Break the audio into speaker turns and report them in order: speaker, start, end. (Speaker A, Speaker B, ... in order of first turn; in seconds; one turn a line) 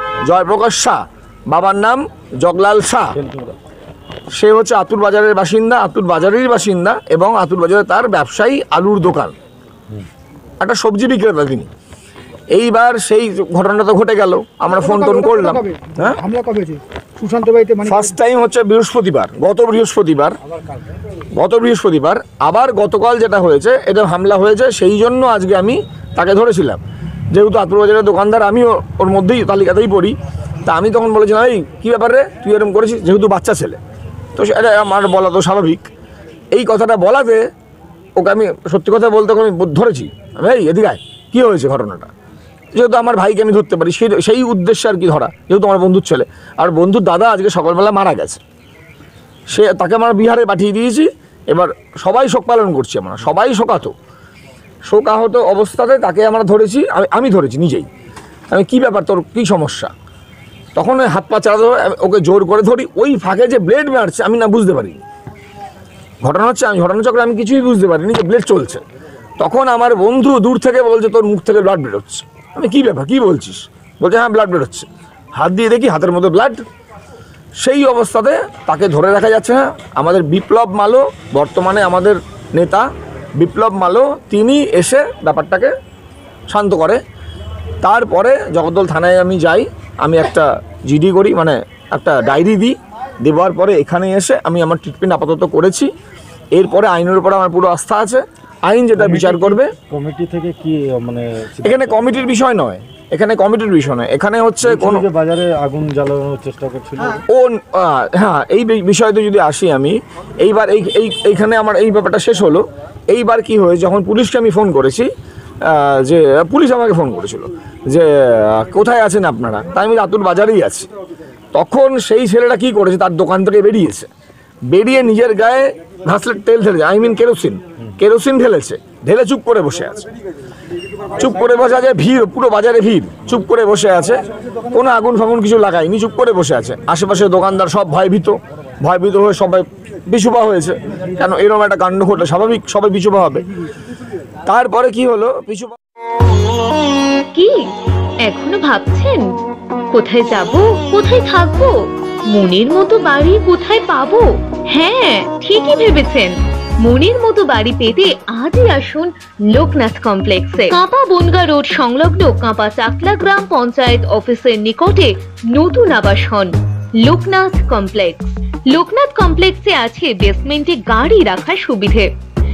Speaker A: 0.2-3.1
Speaker B: 3.1-3.5
Speaker A: 4.3-9.3
Speaker A: 10.6-11.7
Speaker A: 12.5-16.2
Speaker C: 14.7-18.1
Speaker A: 17.9-20.4
Speaker C: 20.5-20.8
Speaker A: 21.4-26.8
Speaker A: 27.3-33.8
Speaker A: 34.4-35.9
Speaker A: 36.5-37.5
Speaker A: 38.2-42.1
Speaker A: 42.7-48.4
Speaker A: 49.5-53.9
Speaker A: 54.9-57.9
Speaker A: 58.5-59.9
Speaker A: 60.8-65.0
Speaker A: 66.2-68.8
Speaker A: 69.4-76.6
Speaker A: 77.6-82.8
Speaker A: 83.4-85.7
Speaker A: 86.5-87.0
Speaker A: 87.8-95.9
Speaker A: 96.5-99.7
Speaker B: 99.0-102.0
Speaker A: 101.6-105.0
Speaker B: 104.6-107.2
Speaker A: 107.3-115.1
Speaker A: 115.6-120.9
Speaker A: 121.5-124.1
Speaker A: 124.7-130.1
Speaker A: 131.2-143.5
Speaker A: 144.4-145.8
Speaker D: 147.3-147.6
Speaker D: 148.2-149.3
Speaker D: 149.9-151.7
Speaker D: 152.3-172.1